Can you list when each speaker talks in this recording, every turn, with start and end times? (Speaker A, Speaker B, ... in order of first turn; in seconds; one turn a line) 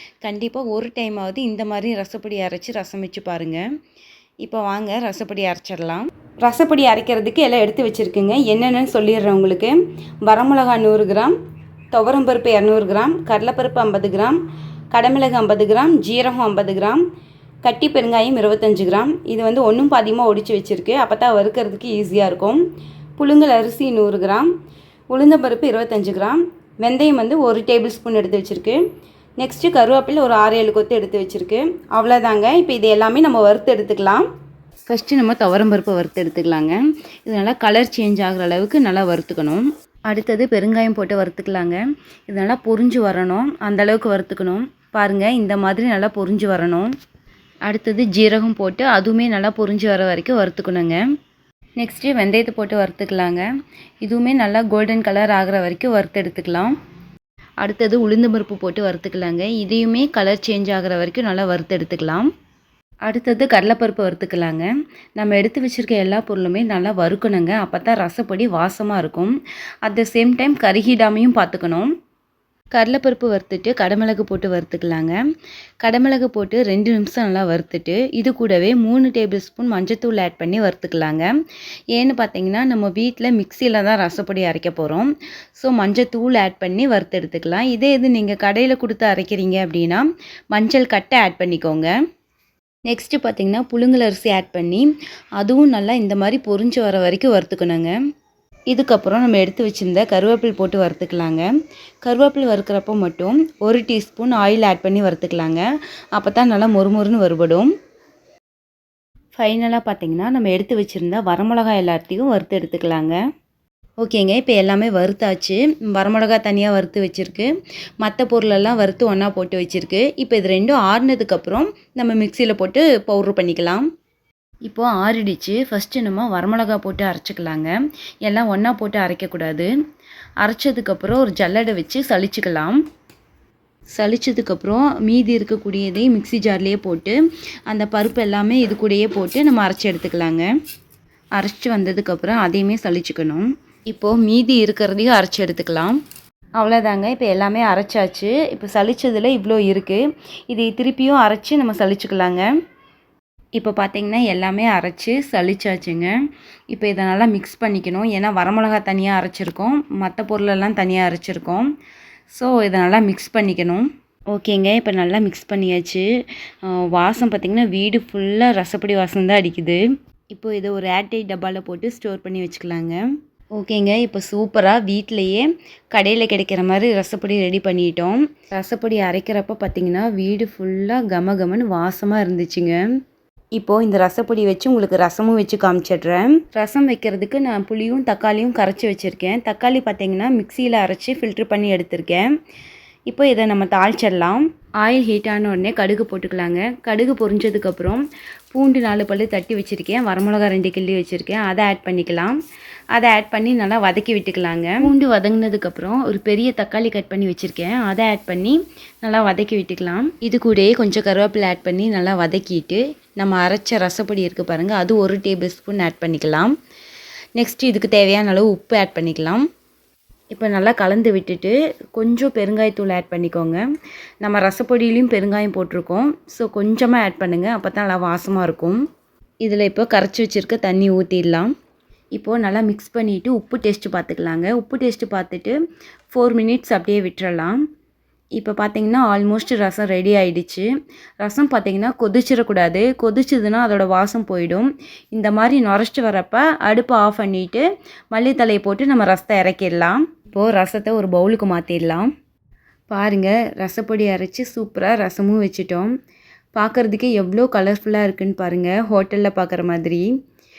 Speaker A: 0.2-3.6
Speaker A: 4.4-11.4
Speaker A: 11.9-14.4
Speaker A: 14.9-17.0
Speaker A: 17.6-22.6
Speaker A: 23.2-24.5
Speaker A: 25.1-28.8
Speaker A: 29.4-34.2
Speaker A: 34.9-46.9
Speaker A: 47.7-51.0
Speaker A: 51.8-53.5
Speaker A: 54.0-56.7
Speaker A: 57.6-62.3
Speaker A: 63.1-69.3
Speaker A: 69.8-71.9
Speaker A: 72.7-75.2
Speaker A: 75.8-81.3
Speaker A: 82.0-91.9
Speaker A: 92.9-94.9
Speaker A: 95.4-98.0
Speaker A: 98.7-101.5
Speaker A: 102.0-107.7
Speaker A: 109.4-113.2
Speaker A: 114.0-117.5
Speaker A: 118.0-123.8
Speaker A: 124.7-129.7
Speaker A: 130.4-132.8
Speaker A: 134.0-137.2
Speaker A: 137.7-140.5
Speaker A: 141.4-146.0
Speaker A: 146.6-152.5
Speaker A: 153.6-156.1
Speaker A: 156.7-161.7
Speaker A: 162.3-166.1
Speaker A: 166.7-169.8
Speaker A: 170.3-173.0
Speaker A: 173.6-182.8
Speaker A: 183.6-192.2
Speaker A: 193.1-202.4
Speaker A: 202.9-216.5
Speaker A: 217.4-219.4
Speaker A: 220.3-223.6
Speaker A: 224.2-228.8
Speaker A: 229.4-231.5
Speaker A: 232.1-235.6
Speaker A: 236.1-237.6
Speaker A: 238.4-240.7
Speaker A: 241.2-252.1
Speaker A: 252.9-255.9
Speaker A: 256.6-260.1